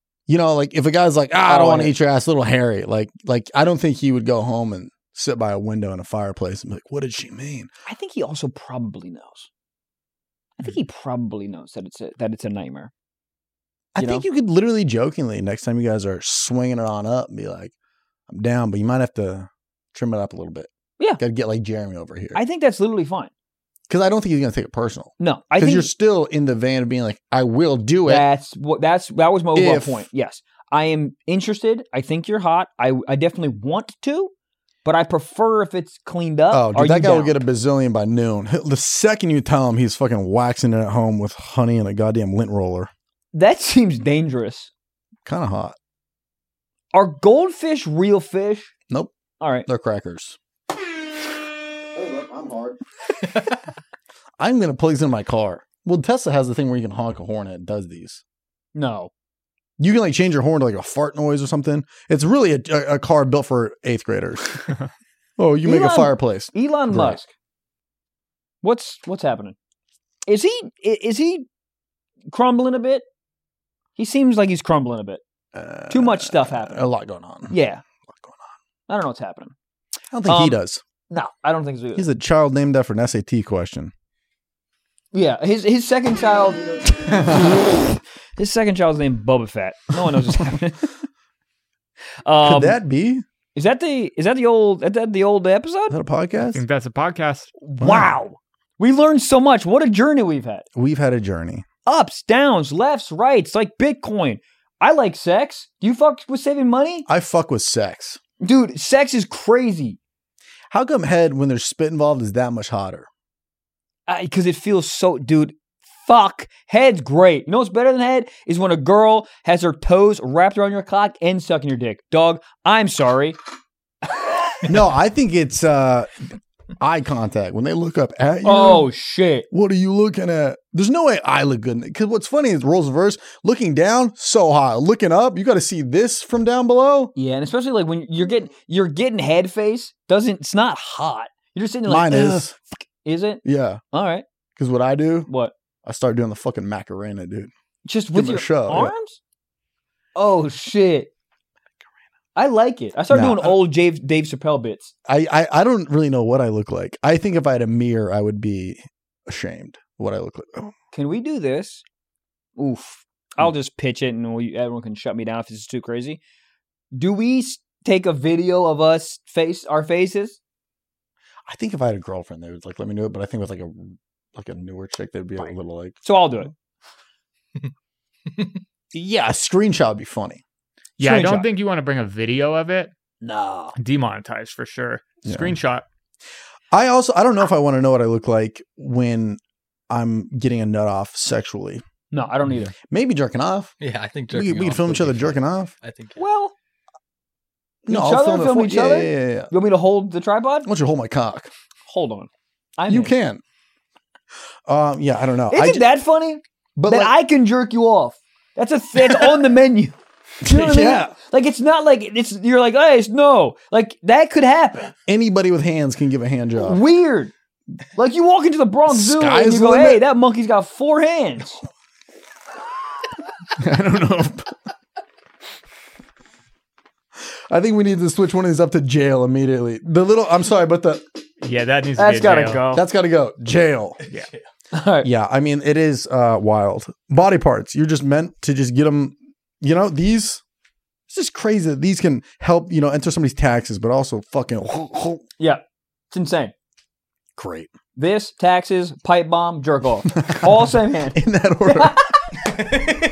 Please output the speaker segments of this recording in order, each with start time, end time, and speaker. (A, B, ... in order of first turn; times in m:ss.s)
0:00.3-0:07.7 A
0:01.4-0:01.9 B
0:07.9-0:09.5 B
0:10.6-0:12.9 B
0:13.9-0:17.7 A
0:14.0-0:14.2 B
0:18.3-0:22.4 A
0:22.3-0:23.3 B
0:23.9-0:28.2 A
0:25.2-0:25.9 B
0:28.0-0:34.3 B
0:29.5-0:30.0 A
0:34.8-0:37.4 B
0:36.5-0:42.9 A
0:43.3-0:44.7 B
0:45.2-0:45.7 A
0:46.9-0:48.7 B
0:49.4-0:49.7 B
0:49.6-0:50.4 A
0:51.9-0:52.8 A
0:54.4-0:58.2 A
0:58.7-0:59.1 B
0:59.8-1:04.6 A
1:05.4-1:07.2 A
1:05.6-1:07.3 B
1:08.6-1:09.6 B
1:10.3-1:11.5 B
1:12.3-1:13.0 B
1:14.0-1:15.2 B
1:15.5-1:17.5 A
1:15.9-1:16.8 B
1:17.5-1:17.8 B
1:18.1-1:18.4 A
1:18.9-1:19.5 B
1:20.1-1:20.8 A
1:20.2-1:20.6 B
1:21.1-1:22.0 B
1:21.9-1:23.9 A
1:25.1-1:27.3 B
1:27.0-1:27.6 A
1:28.4-1:30.9 B
1:32.2-1:32.8 B
1:32.4-1:33.2 A
1:33.5-1:35.9 B
1:35.9-1:36.6 A
1:36.5-1:37.5 C
1:37.6-1:40.6 B
1:37.8-1:38.1 A
1:40.7-1:41.6 A
1:41.8-1:47.0 B
1:47.0-1:48.2 A
1:48.4-1:50.0 B
1:50.7-1:53.1 A
1:54.1-2:03.4 B
2:04.0-2:04.7 B
2:04.6-2:08.9 A
2:08.4-2:09.4 B
2:09.5-2:17.1 A
2:17.1-2:23.4 B
2:21.9-2:22.5 A
2:23.4-2:23.8 A
2:23.9-2:24.2 B
2:24.6-2:25.3 A
2:25.3-2:25.5 B
2:25.8-2:27.5 A
2:27.8-2:29.2 B
2:28.1-2:28.9 A
2:30.2-2:31.1 B
2:32.3-2:34.9 B
2:33.1-2:33.6 A
2:35.0-2:40.7 A
2:40.9-2:41.8 B
2:42.6-2:46.2 B
2:46.9-2:50.4 B
2:51.5-2:56.0 A
2:56.0-2:56.5 B
2:58.9-3:00.4 A
3:01.0-3:02.9 C
3:01.0-3:01.5 B
3:03.2-3:03.8 B
3:03.8-3:05.8 C
3:05.2-3:05.6 A
3:06.7-3:11.8 A
3:12.1-3:12.7 B
3:12.8-3:13.7 A
3:13.8-3:16.2 D
3:14.3-3:15.7 A
3:16.2-3:16.5 B
3:17.8-3:19.5 A
3:17.9-3:20.7 B
3:20.6-3:21.5 A
3:21.9-3:23.1 B
3:22.9-3:23.4 A
3:24.6-3:25.8 A
3:25.5-3:34.9 B
3:26.8-3:27.1 A
3:30.4-3:31.1 A
3:35.0-3:36.8 A
3:36.6-3:37.3 B
3:38.0-3:41.6 B
3:38.9-3:40.0 A
3:43.5-3:44.5 A
3:47.2-3:51.0 A
3:51.4-3:52.6 C
3:52.0-3:52.8 B
3:52.7-3:54.0 A
3:54.7-3:55.1 B
3:55.0-4:00.4 A
4:01.1-4:05.2 A
4:05.4-4:06.5 B
4:07.4-4:07.7 A
4:07.9-4:12.4 B
4:10.1-4:12.0 A